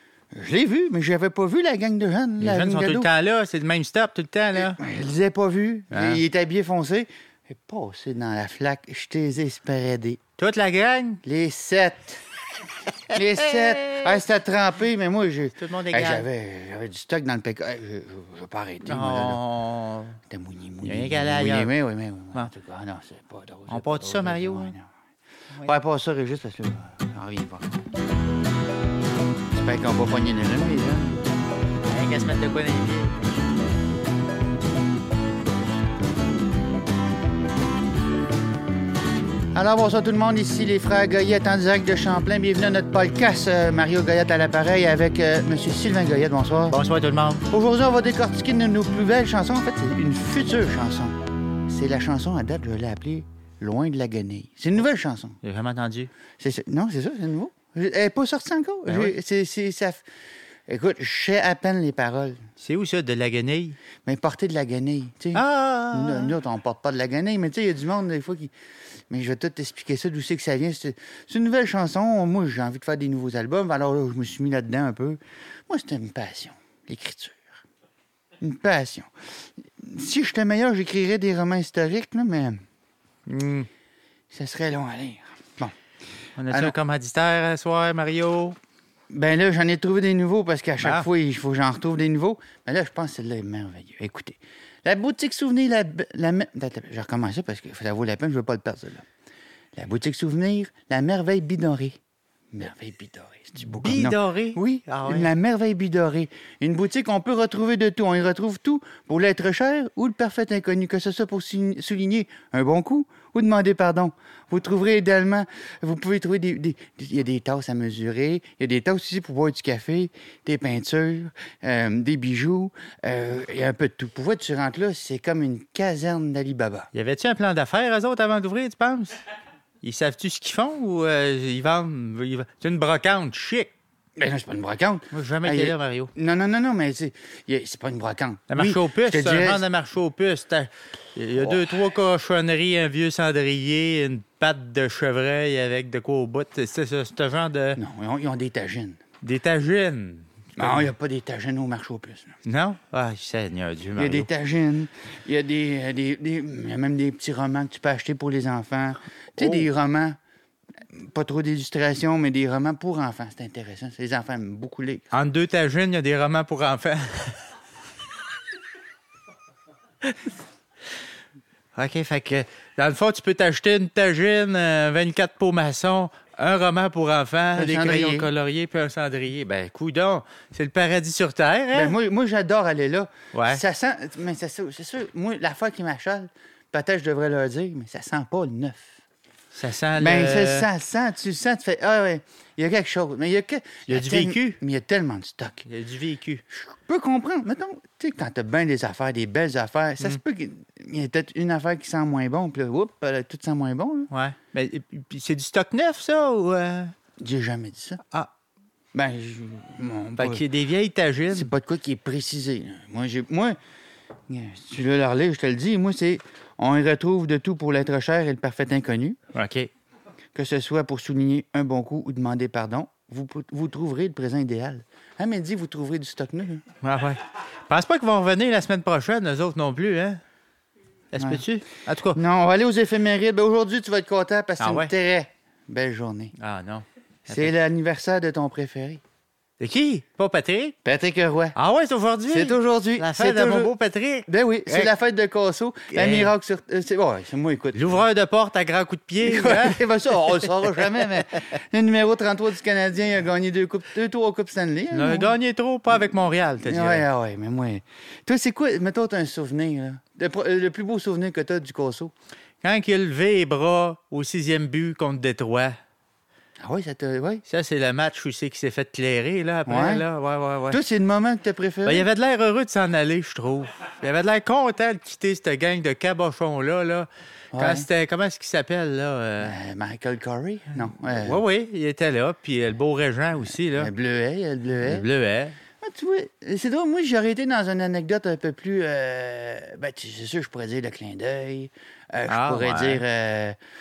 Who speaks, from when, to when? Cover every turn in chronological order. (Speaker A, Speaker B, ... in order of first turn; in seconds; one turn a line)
Speaker A: 0.3-3.1
Speaker B: 2.4-4.8
Speaker A: 4.6-10.2
Speaker B: 5.9-6.2
Speaker B: 10.4-11.2
Speaker A: 11.2-12.2
Speaker A: 13.1-19.4
Speaker B: 13.1-14.2
Speaker B: 15.6-16.2
Speaker B: 18.9-20.2
Speaker A: 20.3-24.9
Speaker B: 20.8-21.7
Speaker B: 23.7-24.7
Speaker A: 25.6-27.8
Speaker A: 29.5-31.2
Speaker B: 31.8-33.4
Speaker A: 39.5-46.8
Speaker B: 46.7-47.5
Speaker A: 47.5-51.2
Speaker A: 51.7-55.4
Speaker B: 55.4-56.1
Speaker A: 56.4-60.0
Speaker B: 58.9-59.1
Speaker A: 60.7-62.5
Speaker B: 62.6-63.8
Speaker A: 64.0-68.5
Speaker B: 65.3-66.3
Speaker A: 69.1-77.6
Speaker A: 78.4-79.1
Speaker A: 79.6-82.6
Speaker B: 83.2-83.7
Speaker A: 84.3-85.7
Speaker B: 86.4-88.6
Speaker A: 86.5-86.7
Speaker A: 89.1-99.0
Speaker B: 90.8-91.1
Speaker A: 99.8-102.0
Speaker A: 102.5-126.9
Speaker B: 103.7-105.3
Speaker B: 126.9-129.2
Speaker B: 129.8-133.7
Speaker A: 134.2-139.6
Speaker B: 135.1-136.1
Speaker B: 138.5-147.8
Speaker A: 147.8-149.0
Speaker B: 149.2-150.9
Speaker A: 150.6-152.4
Speaker B: 152.4-154.3
Speaker A: 154.0-160.2
Speaker B: 159.4-159.7
Speaker A: 160.9-165.1
Speaker B: 165.1-167.5
Speaker B: 171.7-181.9
Speaker A: 177.6-178.3
Speaker A: 181.7-189.0
Speaker B: 183.3-183.6
Speaker B: 189.5-190.7
Speaker A: 190.0-195.7
Speaker B: 193.9-194.6
Speaker B: 195.7-196.4
Speaker A: 196.5-204.1
Speaker B: 204.1-206.9
Speaker A: 207.2-208.0
Speaker A: 208.9-210.4
Speaker B: 210.2-211.5
Speaker A: 211.3-213.6
Speaker A: 214.3-219.2
Speaker B: 219.3-219.7
Speaker A: 220.3-226.7
Speaker B: 226.8-230.2
Speaker B: 231.1-232.2
Speaker A: 231.2-231.4
Speaker A: 232.1-236.3
Speaker B: 234.6-234.9
Speaker B: 236.3-237.5
Speaker A: 237.3-239.0
Speaker B: 239.6-240.8
Speaker A: 240.8-241.6
Speaker B: 241.6-244.9
Speaker A: 242.3-243.7
Speaker A: 244.3-248.0
Speaker B: 245.9-246.3
Speaker B: 247.7-251.2
Speaker A: 249.2-255.3
Speaker B: 254.9-257.0
Speaker A: 256.6-262.1
Speaker B: 262.6-265.8
Speaker A: 266.6-267.4
Speaker B: 267.4-270.8
Speaker A: 269.7-270.0
Speaker A: 270.7-272.1
Speaker B: 271.8-279.6
Speaker A: 277.5-277.9
Speaker A: 279.4-281.4
Speaker B: 280.9-283.9
Speaker A: 283.7-285.1
Speaker B: 284.8-285.6
Speaker A: 285.8-293.6
Speaker B: 292.3-293.0